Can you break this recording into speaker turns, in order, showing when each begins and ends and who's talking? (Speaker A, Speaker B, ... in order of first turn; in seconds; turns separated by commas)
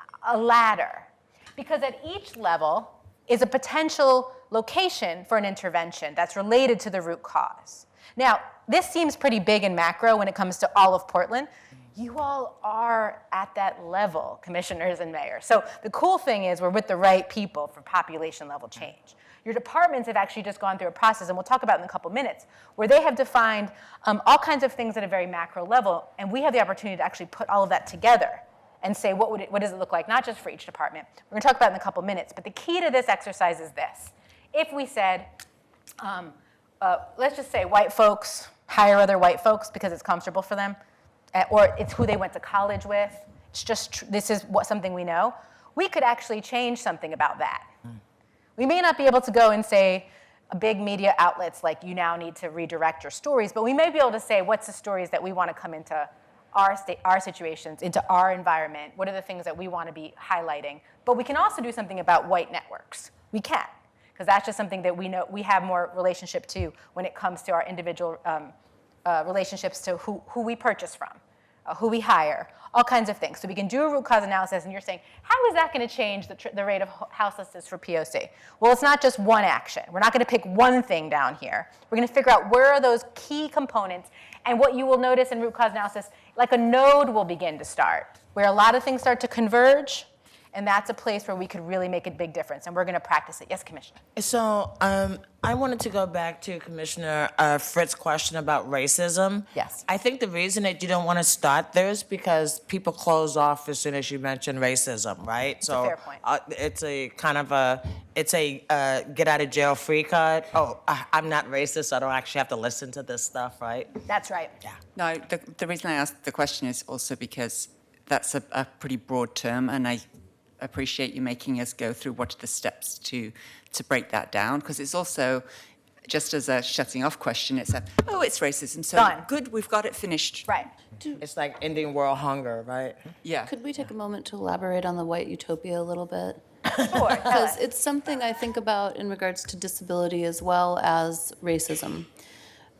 Speaker A: 0.2-35.3, Speaker A: 36.0-40.8, Speaker A: 41.3-47.7, Speaker A: 48.6-68.5, Speaker A: 69.0-94.0, Speaker B: 94.2-114.0, Speaker A: 99.5-99.8, Speaker A: 105.7-106.2, Speaker A: 114.1-114.5, Speaker C: 115.0-120.0, Speaker C: 120.6-125.4, Speaker C: 126.1-130.5, Speaker A: 128.9-129.3, Speaker B: 131.2-133.0, Speaker C: 133.2-133.5, Speaker D: 133.5-136.4, Speaker A: 136.8-137.6, Speaker D: 137.1-142.1